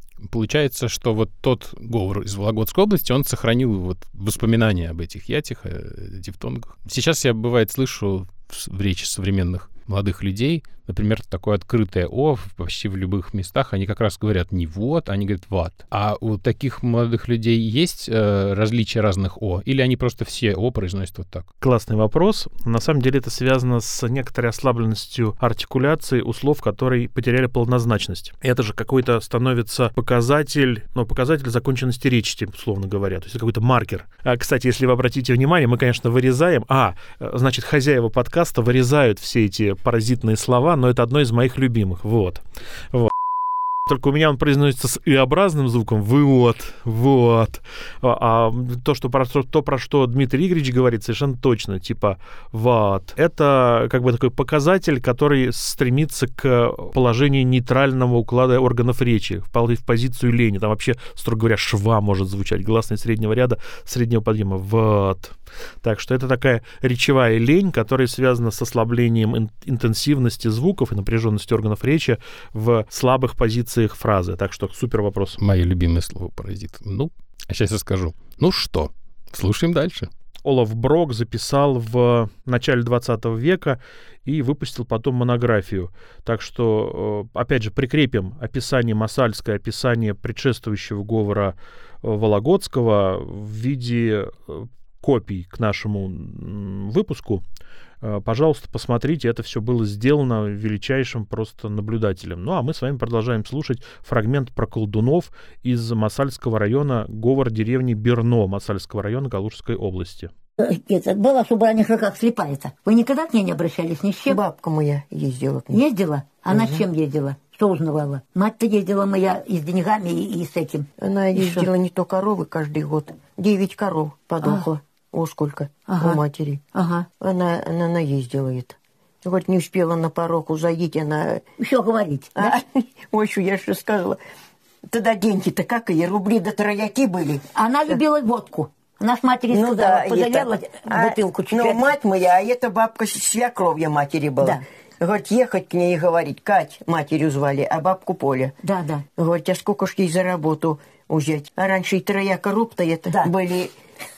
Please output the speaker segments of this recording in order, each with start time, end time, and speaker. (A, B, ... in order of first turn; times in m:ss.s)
0:00.2-0:21.5 A
0:21.6-0:43.1 B
0:43.8-1:15.4 B
1:15.4-1:20.1 A
1:20.4-1:37.4 B
1:38.0-1:50.3 B
1:50.6-1:54.4 C
1:54.3-1:55.8 D
1:55.7-2:01.7 C
1:56.5-1:56.8 D
2:01.0-2:06.6 D
2:05.8-2:06.2 C
2:06.7-2:07.0 C
2:07.2-2:11.4 D
2:11.6-2:12.5 C
2:12.4-2:14.2 D
2:14.9-2:18.0 D
2:17.5-2:21.9 C
2:19.5-2:33.7 D
2:28.6-2:29.0 C